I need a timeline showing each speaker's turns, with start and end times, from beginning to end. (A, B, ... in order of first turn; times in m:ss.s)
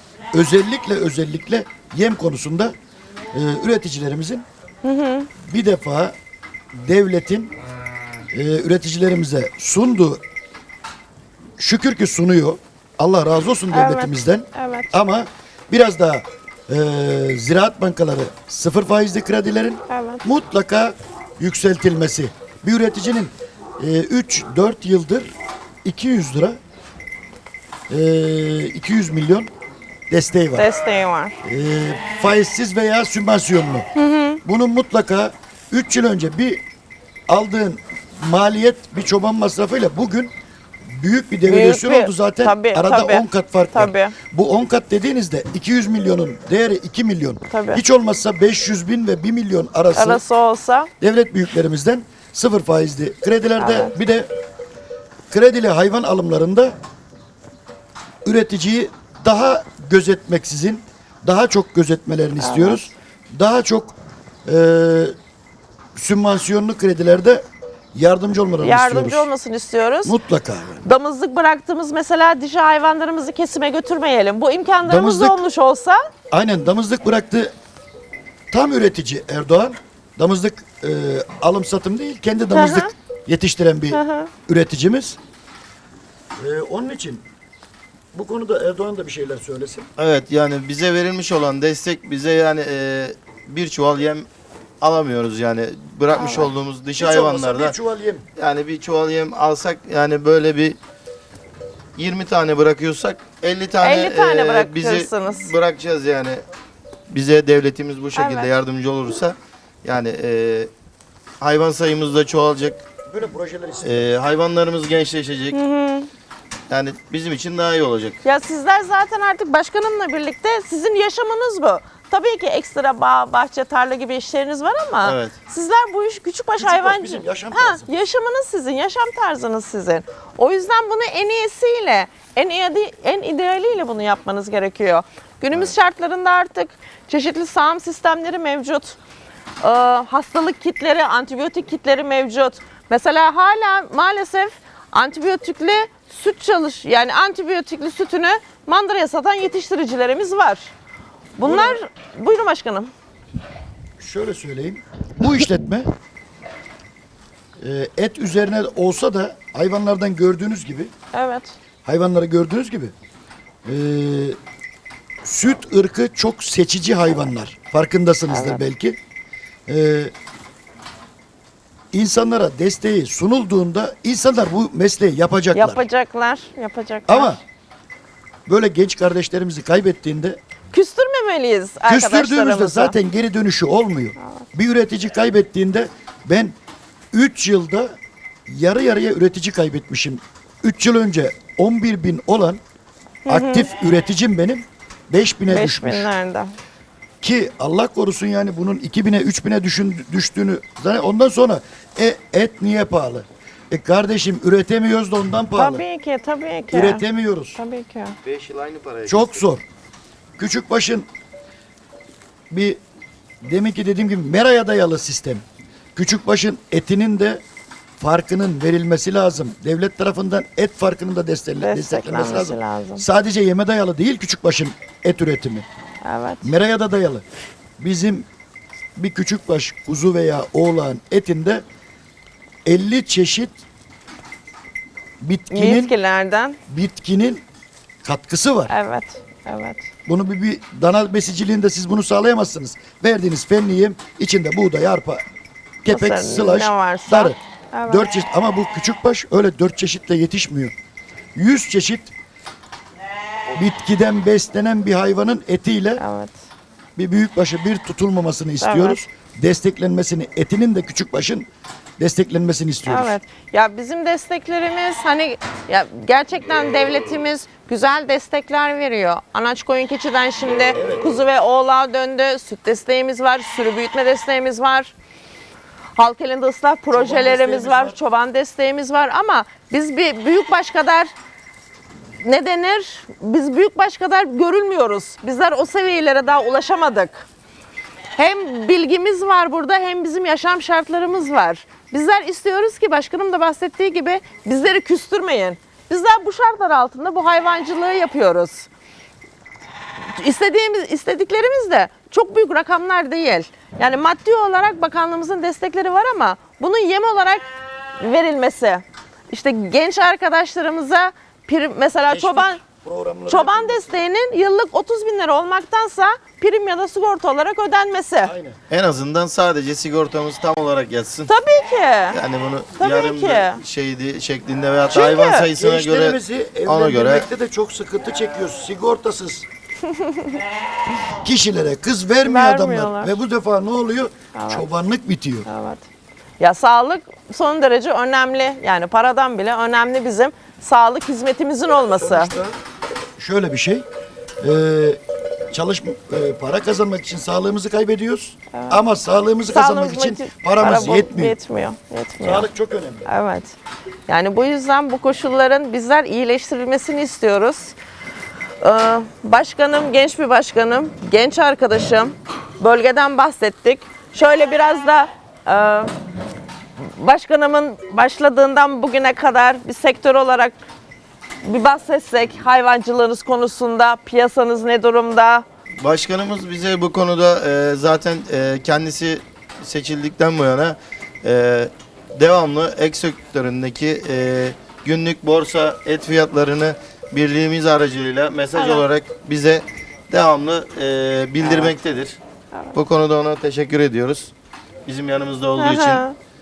0:00.3-0:02.7 A
0:03.3-0:04.4 A
0:04.8-0:05.3 B
0:05.4-0:06.1 A
0:06.7-0:07.5 A
0:08.3-0:10.2 A
0:11.6-0:26.6 A
0:13.7-0:14.9 B
0:19.9-0:20.2 B
0:27.9-0:29.5 A
0:30.1-0:30.7 A
0:30.6-0:31.4 B
0:31.4-0:33.9 A
0:33.9-0:34.4 B
0:34.4-0:36.6 A
0:37.3-0:40.3 A
0:40.8-0:50.2 A
0:41.4-0:44.2 B
0:47.5-0:47.8 B
0:49.9-0:50.9 B
0:51.0-0:54.3 A
0:53.6-0:54.0 B
0:55.3-0:56.7 A
0:58.2-1:05.1 A
1:02.4-1:02.9 B
1:05.9-1:09.3 A
1:08.6-1:10.1 B
1:10.0-1:10.8 A
1:10.8-1:16.0 B
1:14.8-1:15.4 A
1:16.3-1:17.5 A
1:18.5-1:25.2 A
1:22.5-1:22.9 B
1:23.9-1:24.3 B
1:26.4-1:27.2 A
1:28.1-1:29.9 A
1:30.0-1:34.3 C
1:34.8-1:37.8 C
1:36.2-1:36.5 B
1:37.0-1:38.2 A
1:38.4-1:40.8 C
1:42.0-1:46.4 C
1:43.8-1:45.5 B
1:47.1-1:50.7 C
1:48.2-1:48.5 B
1:51.4-1:52.8 C
1:53.1-1:54.1 A
1:53.8-1:55.6 C
1:55.5-1:56.1 B
1:56.7-1:58.2 C
1:58.2-2:19.0 B
2:05.0-2:05.3 C
2:06.6-2:07.9 A
2:19.6-2:30.7 B
2:31.4-2:32.9 B
2:31.4-2:31.8 A
2:34.0-2:35.9 A
2:37.6-2:40.9 A
2:41.1-2:41.6 B
2:41.8-2:42.9 A
2:43.6-2:44.4 A
2:45.2-2:49.0 A
2:48.3-2:48.6 B
2:49.7-2:50.1 A
2:51.9-2:55.8 A
2:55.5-2:57.4 B
2:57.1-2:57.4 A
2:58.5-3:00.4 A
3:00.7-3:03.0 B
3:01.9-3:06.5 A
3:07.1-3:07.9 A
3:08.5-3:12.6 A
3:13.2-3:13.7 B
3:13.3-3:16.1 A
3:15.5-3:16.5 B
3:17.2-3:25.8 A
3:25.6-3:27.0 B
3:26.7-3:27.6 A
3:27.6-3:28.2 B
3:28.2-3:29.4 C
3:29.0-3:29.6 A
3:30.4-3:31.1 A
3:32.5-3:32.8 A
3:33.4-3:35.4 A
3:35.9-3:37.4 A
3:38.0-3:45.6 A
3:41.6-3:43.0 B
3:46.0-3:46.5 B
3:46.4-3:47.2 A
3:47.8-3:48.3 A
3:49.0-3:51.6 A
3:52.6-3:53.6 A
3:55.2-3:55.9 A
3:55.5-3:56.6 B
3:56.7-3:57.4 A
3:58.0-3:58.7 A
3:58.7-3:59.9 B
4:00.0-4:05.2 A
4:05.8-4:10.7 A
4:05.9-4:08.1 B
4:11.3-4:12.1 A
4:13.5-4:16.0 A
4:16.0-4:16.3 B
4:17.0-4:23.2 A
4:18.6-4:19.0 B
4:22.8-4:34.9 B
4:30.7-4:31.2 A
4:36.0-4:41.1 B
4:36.9-4:38.0 A
4:42.2-4:47.3 B
4:48.2-4:58.7 B
5:00.1-5:07.4 B
5:08.0-5:12.6 B
5:12.1-5:14.0 A
5:13.3-5:18.3 B
5:18.2-5:18.6 A
5:18.7-5:21.3 C
5:21.3-5:22.2 B
5:22.1-5:27.2 C
5:22.8-5:23.6 B
5:24.9-5:25.5 B
5:25.5-5:29.5 A
5:31.0-5:35.5 A
5:32.2-5:33.1 B
5:34.3-5:34.6 B
5:35.4-5:35.9 B
5:36.4-5:42.3 B
5:42.0-5:42.6 A
5:43.2-5:43.8 A
5:44.4-5:45.0 A
5:45.5-5:51.4 A
5:48.5-5:48.8 B
5:49.5-5:52.5 B
5:52.2-5:53.1 A
5:53.0-5:53.6 B
5:54.1-5:57.7 B
5:58.6-6:05.9 B
6:06.8-6:10.5 B
6:11.4-6:15.4 B
6:15.8-6:32.2 C
6:28.6-6:28.8 B
6:31.4-6:31.7 B
6:32.7-6:34.3 C
6:34.8-6:36.0 C
6:35.6-6:36.1 B